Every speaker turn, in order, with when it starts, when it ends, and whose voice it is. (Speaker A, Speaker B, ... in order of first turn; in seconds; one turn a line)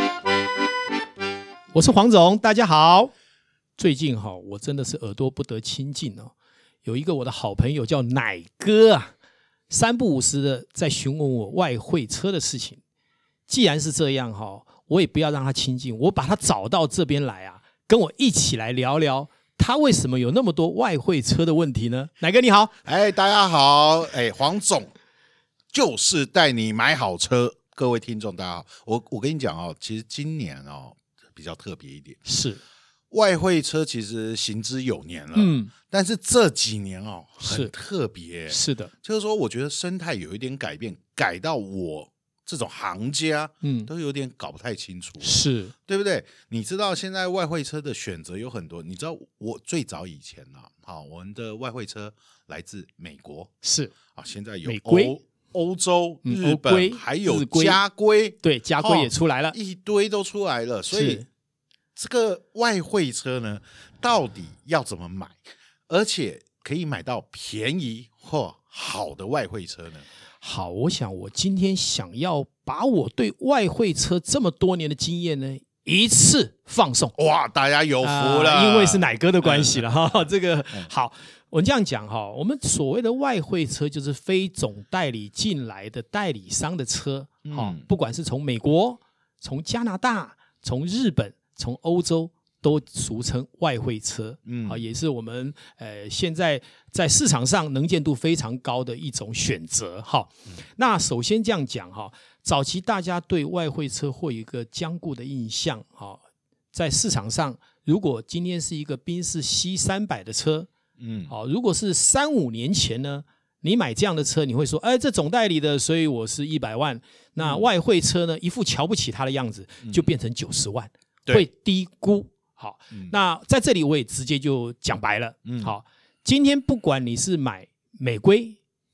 Speaker A: 1.7-3.1
Speaker A: 3.8-6.3
Speaker A: 6.8-9.1
Speaker A: 9.7-12.8
Speaker A: 13.5-22.7
Speaker B: 22.8-24.9
Speaker B: 25.7-32.2
Speaker A: 32.2-32.6
Speaker B: 33.1-45.4
Speaker A: 35.3-35.7
Speaker A: 37.4-37.7
Speaker A: 38.5-38.9
Speaker A: 43.6-43.9
Speaker A: 45.2-45.7
Speaker B: 45.9-53.5
Speaker A: 53.6-53.9
Speaker B: 54.1-61.2
Speaker A: 54.6-55.2
Speaker A: 56.2-57.8
Speaker A: 58.4-59.5
Speaker A: 60.9-61.3
Speaker B: 62.0-70.1
Speaker A: 70.4-77.1
Speaker B: 77.2-80.9
Speaker A: 78.0-106.2
Speaker B: 87.5-87.9
Speaker B: 94.5-94.8
Speaker A: 106.7-110.7
Speaker B: 111.0-111.3
Speaker A: 111.3-128.6
Speaker B: 117.4-117.7
Speaker B: 125.4-125.8